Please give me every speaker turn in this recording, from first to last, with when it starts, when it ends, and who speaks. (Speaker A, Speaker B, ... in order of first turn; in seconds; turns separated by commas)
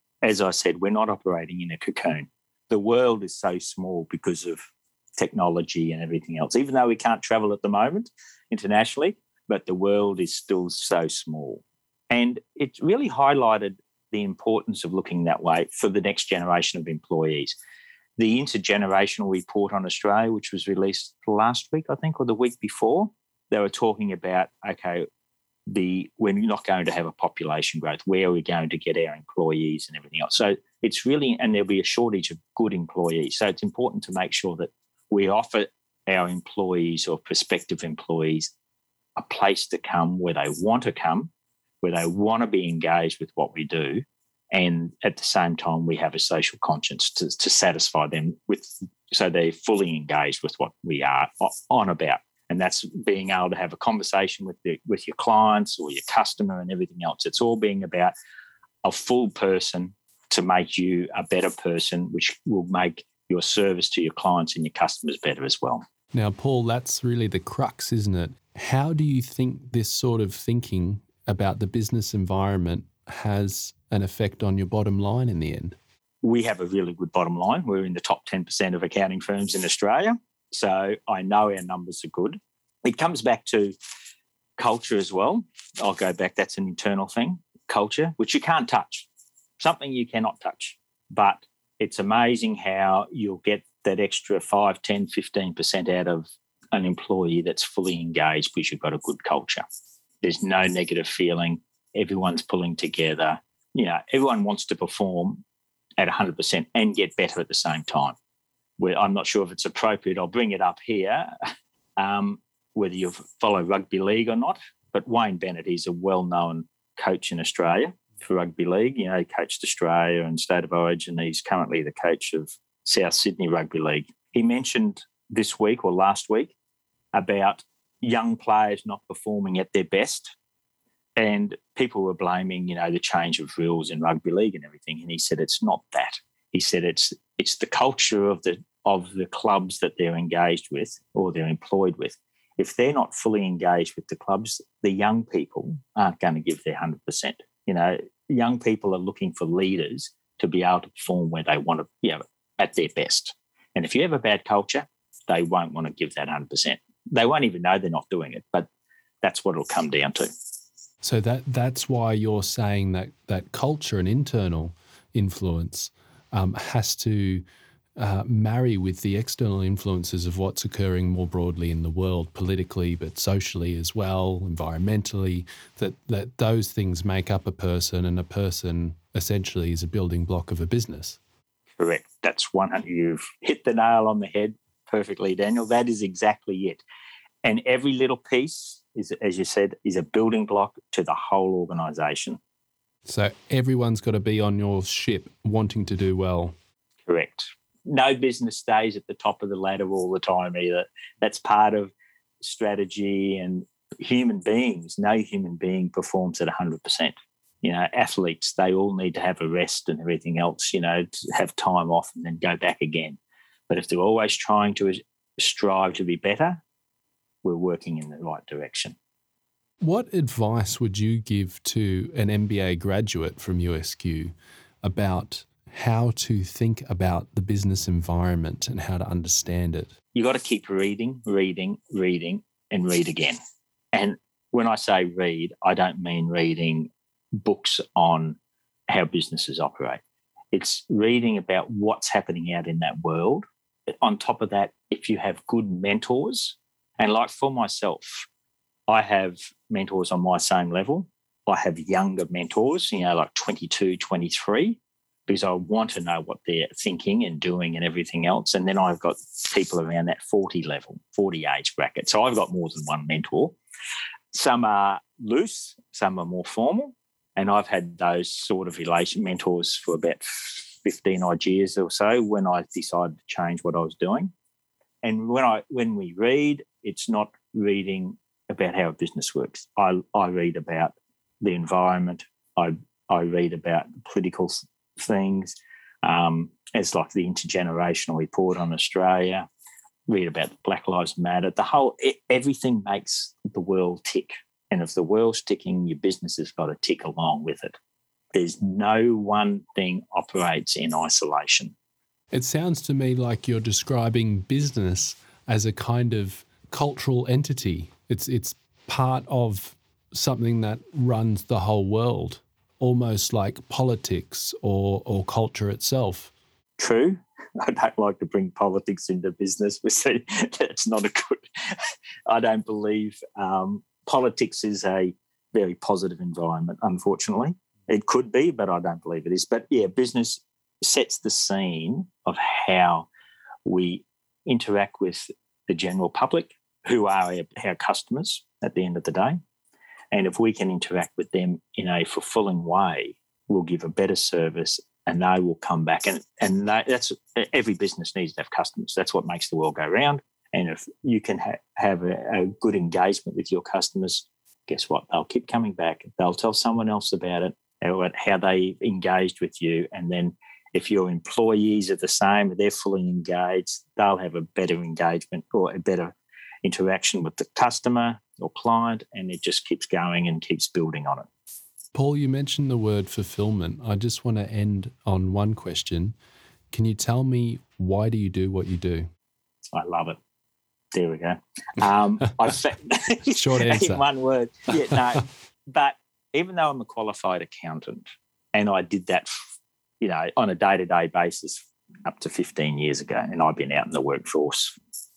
Speaker A: 0.2-17.6, Speaker A: 18.2-25.1, Speaker A: 25.7-38.5, Speaker A: 39.2-41.3, Speaker A: 41.8-58.1, Speaker A: 58.8-65.8, Speaker B: 66.1-75.8, Speaker A: 76.2-83.7, Speaker A: 84.6-89.1, Speaker A: 89.6-99.6, Speaker A: 100.2-105.4, Speaker A: 106.0-108.1, Speaker A: 108.8-111.3, Speaker A: 112.0-126.5, Speaker A: 127.1-130.3, Speaker A: 131.2-158.7, Speaker A: 159.2-160.3, Speaker B: 161.0-167.4, Speaker B: 168.0-181.2, Speaker A: 181.8-186.8, Speaker A: 187.4-192.4, Speaker B: 193.0-196.5, Speaker A: 197.1-216.6, Speaker A: 217.4-218.9, Speaker B: 219.8-229.9, Speaker A: 230.1-233.4, Speaker A: 233.9-238.4, Speaker A: 238.9-240.0, Speaker A: 240.5-243.4, Speaker A: 244.0-248.3, Speaker A: 248.9-263.6, Speaker A: 264.3-274.3, Speaker A: 275.0-289.4, Speaker A: 290.1-297.8, Speaker A: 298.3-301.7, Speaker B: 302.3-316.3, Speaker A: 316.8-321.8, Speaker A: 322.3-333.1, Speaker A: 333.6-339.4, Speaker A: 340.1-371.3, Speaker B: 371.9-376.1, Speaker B: 376.7-379.1, Speaker A: 379.7-380.2, Speaker A: 380.9-389.4, Speaker B: 383.3-384.0, Speaker A: 390.0-394.8